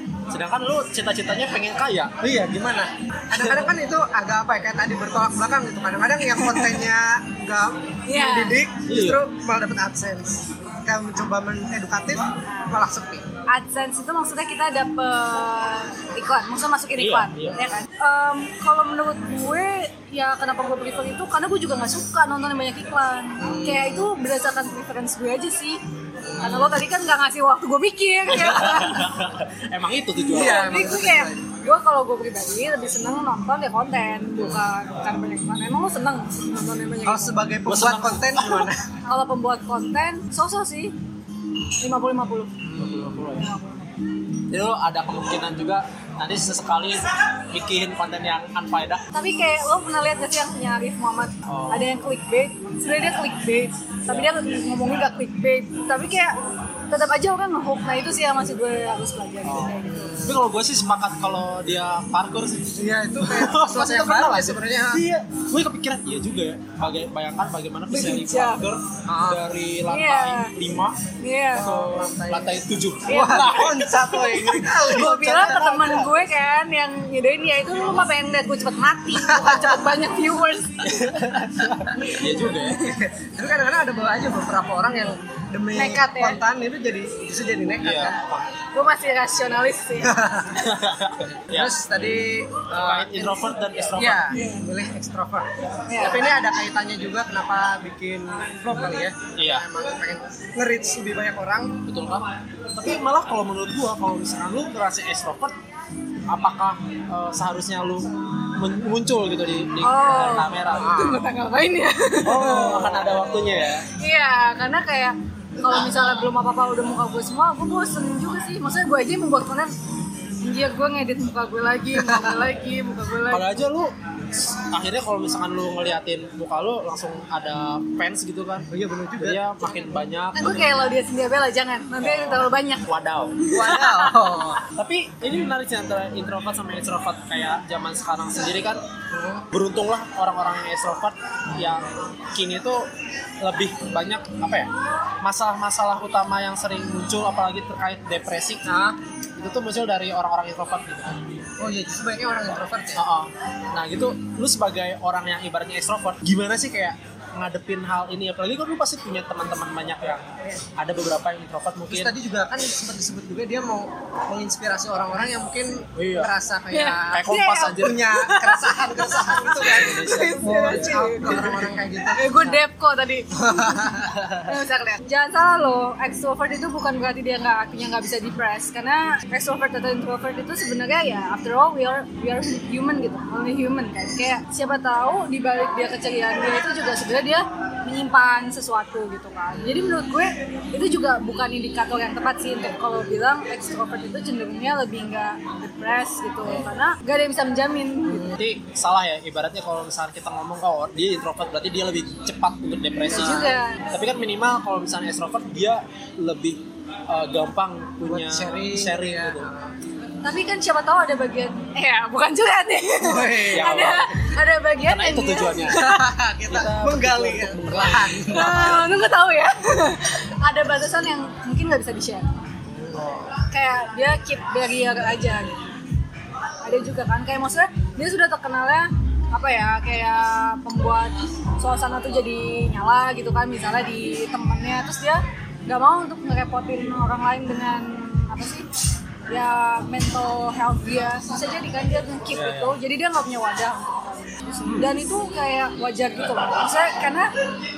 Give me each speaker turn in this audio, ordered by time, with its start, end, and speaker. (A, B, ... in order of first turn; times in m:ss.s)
0:00.3-0:02.2 A
0:02.2-0:13.3 B
0:06.4-0:06.7 C
0:08.1-0:08.6 C
0:08.9-0:09.2 A
0:12.5-0:12.8 C
0:13.5-0:25.8 C
0:17.0-0:17.7 A
0:23.4-0:24.1 B
0:26.2-0:26.9 B
0:26.4-0:29.1 C
0:28.3-0:30.8 A
0:30.3-0:37.5 C
0:30.3-0:31.6 B
0:37.0-0:38.9 B
0:37.6-0:38.7 A
0:39.1-0:40.9 C
0:41.8-0:42.6 C
0:42.6-0:43.3 B
0:42.8-0:43.5 A
0:43.4-0:43.9 C
0:44.5-0:49.0 A
0:49.1-0:56.4 C
0:51.5-0:51.9 A
0:56.9-1:00.2 C
0:59.4-1:11.0 A
0:59.8-1:00.4 B
1:02.8-1:05.0 B
1:07.9-1:08.6 C
1:09.1-1:09.4 B
1:09.9-1:10.5 C
1:11.2-1:11.7 C
1:11.5-1:15.8 B
1:11.6-1:16.1 A
1:13.1-1:21.1 C
1:19.2-1:19.9 B
1:20.8-1:22.9 A
1:22.0-1:22.9 C
1:22.7-1:28.2 B
1:25.7-1:26.4 C
1:27.8-1:28.5 A
1:28.7-1:30.2 C
1:30.0-1:30.7 B
1:30.5-1:31.8 A
1:31.5-1:41.8 B
1:32.8-1:34.4 A
1:34.3-1:34.6 C
1:35.9-1:36.3 C
1:39.4-1:39.6 A
1:41.8-1:45.6 A
1:46.3-1:51.0 A
1:49.8-1:52.8 C
1:50.8-1:51.3 B
1:52.2-1:53.9 A
1:52.3-1:53.1 B
1:54.0-1:59.7 C
1:55.6-1:55.9 B
2:00.4-2:03.7 C
2:02.0-2:02.4 B
2:03.3-2:08.7 A
2:08.7-2:09.5 B
2:09.2-2:10.7 A
2:10.4-2:12.8 C
2:12.0-2:13.4 A
2:13.4-2:14.6 C
2:13.5-2:14.6 B
2:14.8-2:18.8 A
2:19.1-2:19.5 B
2:19.5-2:22.9 A
2:23.4-2:24.7 A
2:25.2-2:28.7 A
2:28.7-2:29.0 B
2:29.4-2:31.3 A
2:31.6-2:33.0 B
2:33.0-2:42.1 A
2:41.9-2:52.6 B
2:46.0-2:46.3 A
2:46.7-2:51.5 C
2:47.0-2:48.0 A
2:49.5-2:51.6 A
2:52.2-3:18.3 C
2:53.4-2:54.1 B
2:54.0-2:54.5 A
3:16.4-3:16.7 A
3:18.1-3:18.3 B
3:18.3-3:29.5 A
3:23.1-3:23.8 C
3:28.0-3:29.7 B
3:30.2-3:36.1 C
3:33.0-3:34.0 B
3:33.5-3:34.1 A
3:34.8-3:35.9 A
3:35.7-3:38.8 B
3:36.5-3:38.8 A
3:38.3-3:42.3 C
3:42.7-3:43.1 B
3:42.9-3:43.4 A
3:43.5-3:45.6 C
3:46.6-3:58.7 C
3:59.3-4:07.3 C
4:02.3-4:02.8 A
4:04.7-4:04.9 A